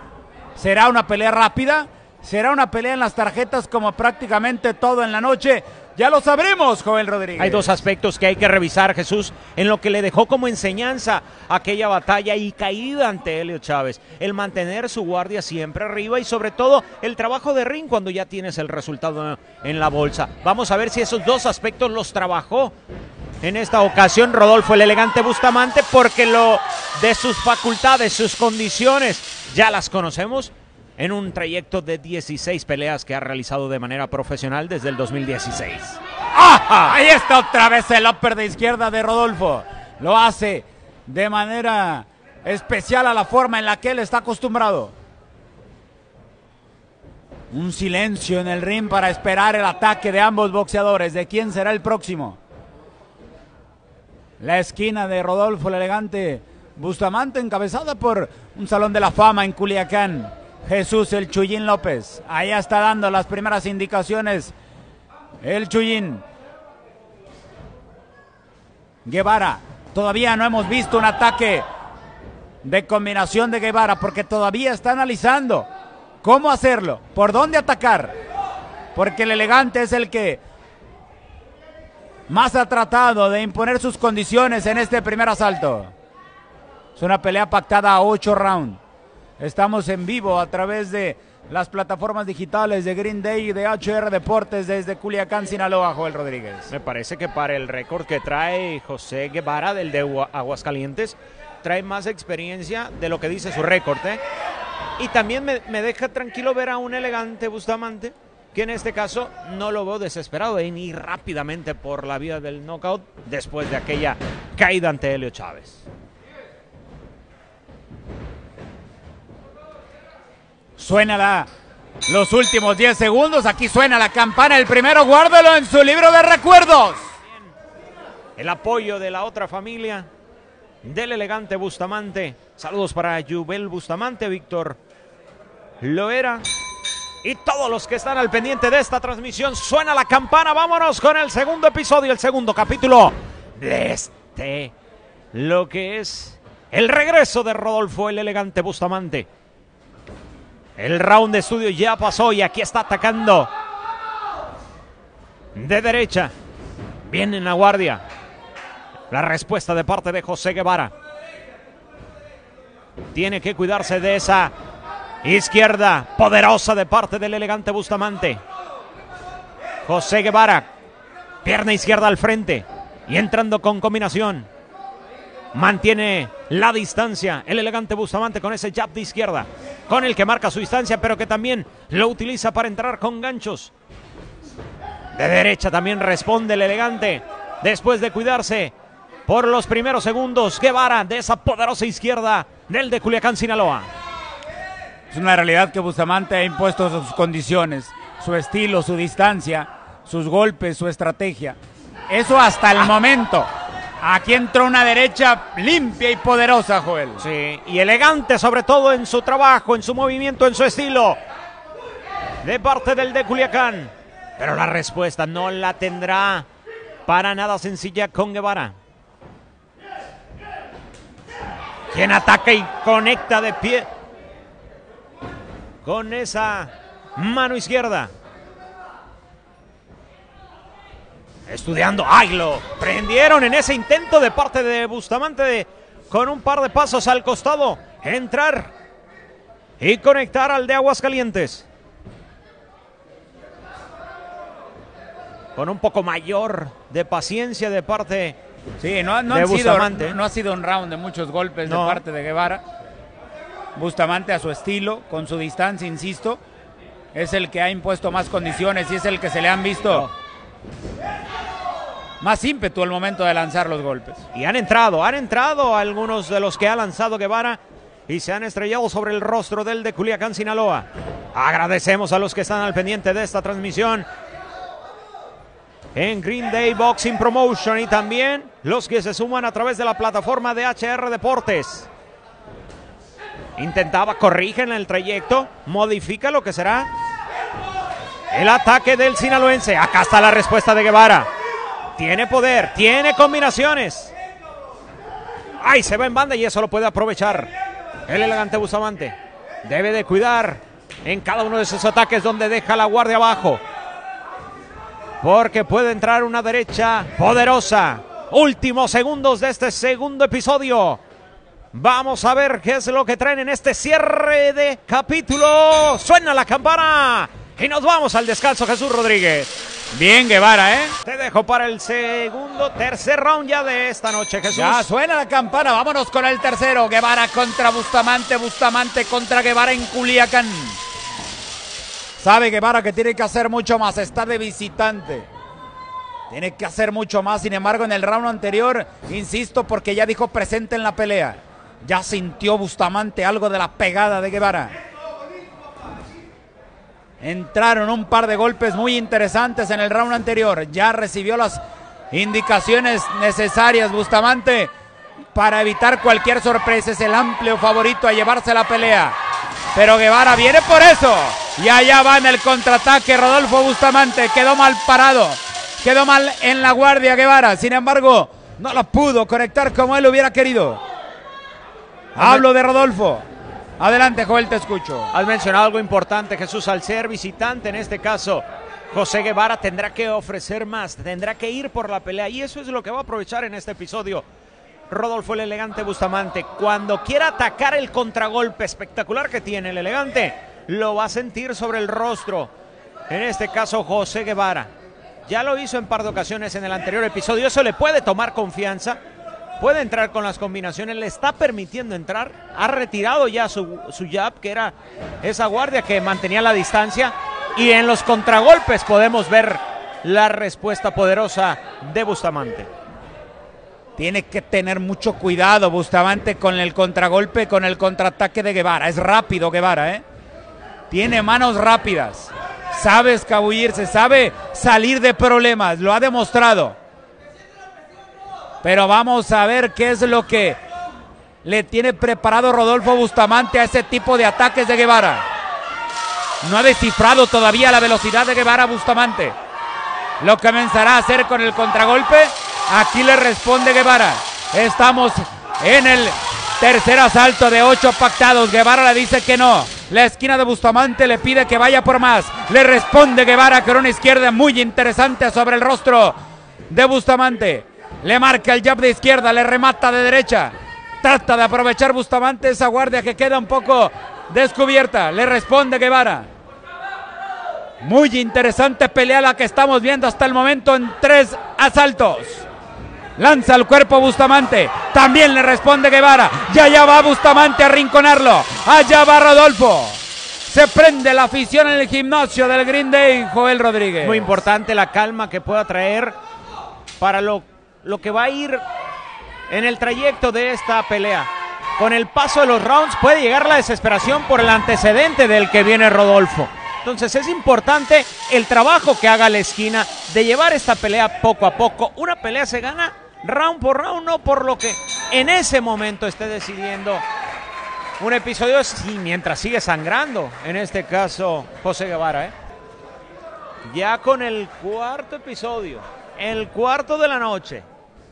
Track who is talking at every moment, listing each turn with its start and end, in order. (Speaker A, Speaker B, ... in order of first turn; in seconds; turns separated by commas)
Speaker A: 0.6-7.7, Speaker B: 7.4-22.7, Speaker B: 23.4-36.0, Speaker A: 36.4-44.9, Speaker B: 36.7-37.0, Speaker A: 47.5-52.4, Speaker A: 54.4-64.5, Speaker A: 65.4-66.2, Speaker A: 69.0-71.7, Speaker A: 72.6-75.7, Speaker A: 76.2-78.2, Speaker A: 79.0-80.4, Speaker A: 82.3-85.9, Speaker A: 87.0-88.8, Speaker A: 89.4-96.7, Speaker B: 96.7-104.2, Speaker B: 105.0-115.8, Speaker A: 120.8-121.5, Speaker A: 122.1-127.1, Speaker B: 128.4-130.1, Speaker B: 130.8-134.8, Speaker B: 135.8-136.4, Speaker B: 137.2-144.7, Speaker B: 145.3-149.3, Speaker B: 150.8-153.5, Speaker B: 155.6-156.3, Speaker B: 157.1-158.0, Speaker B: 159.1-160.9, Speaker B: 163.1-164.5, Speaker B: 165.2-168.4, Speaker B: 169.9-170.7, Speaker B: 171.4-174.5, Speaker B: 175.5-183.7, Speaker B: 185.2-188.7, Speaker B: 189.3-193.9, Speaker A: 195.1-201.6, Speaker A: 202.1-203.5, Speaker A: 204.0-207.2, Speaker B: 207.2-211.2, Speaker B: 212.4-216.5, Speaker B: 217.1-218.7, Speaker B: 221.9-223.9, Speaker B: 225.8-228.1, Speaker B: 231.5-238.7, Speaker B: 239.8-241.7, Speaker B: 245.6-248.4, Speaker A: 248.8-252.6, Speaker B: 249.3-250.2, Speaker B: 251.7-252.0, Speaker A: 253.8-256.4, Speaker A: 257.1-260.1, Speaker B: 259.8-260.1, Speaker A: 262.2-264.2, Speaker B: 264.3-274.1, Speaker B: 275.9-281.9, Speaker B: 283.6-286.9, Speaker B: 288.3-291.3, Speaker B: 292.0-294.1, Speaker B: 295.6-297.5, Speaker B: 298.1-303.6, Speaker B: 305.2-311.0, Speaker B: 311.7-319.5, Speaker A: 319.9-320.9, Speaker B: 321.1-324.9, Speaker A: 324.5-330.8, Speaker A: 332.2-335.3, Speaker A: 336.3-344.7, Speaker A: 347.2-354.7, Speaker A: 355.3-359.2, Speaker A: 359.8-370.8, Speaker B: 372.2-372.4, Speaker A: 372.2-373.2, Speaker A: 373.8-375.1, Speaker B: 375.1-384.2, Speaker B: 384.9-392.5, Speaker B: 393.1-394.7, Speaker B: 395.3-399.0, Speaker B: 399.6-412.7, Speaker A: 414.0-420.0, Speaker A: 420.9-426.8, Speaker A: 428.6-430.6, Speaker A: 431.4-435.3, Speaker A: 436.4-439.4, Speaker A: 440.2-456.2, Speaker A: 456.7-466.3, Speaker A: 467.8-472.4, Speaker A: 473.2-484.4, Speaker B: 484.0-486.1, Speaker B: 487.0-488.6, Speaker B: 489.5-507.0, Speaker B: 508.0-512.3, Speaker B: 513.7-517.6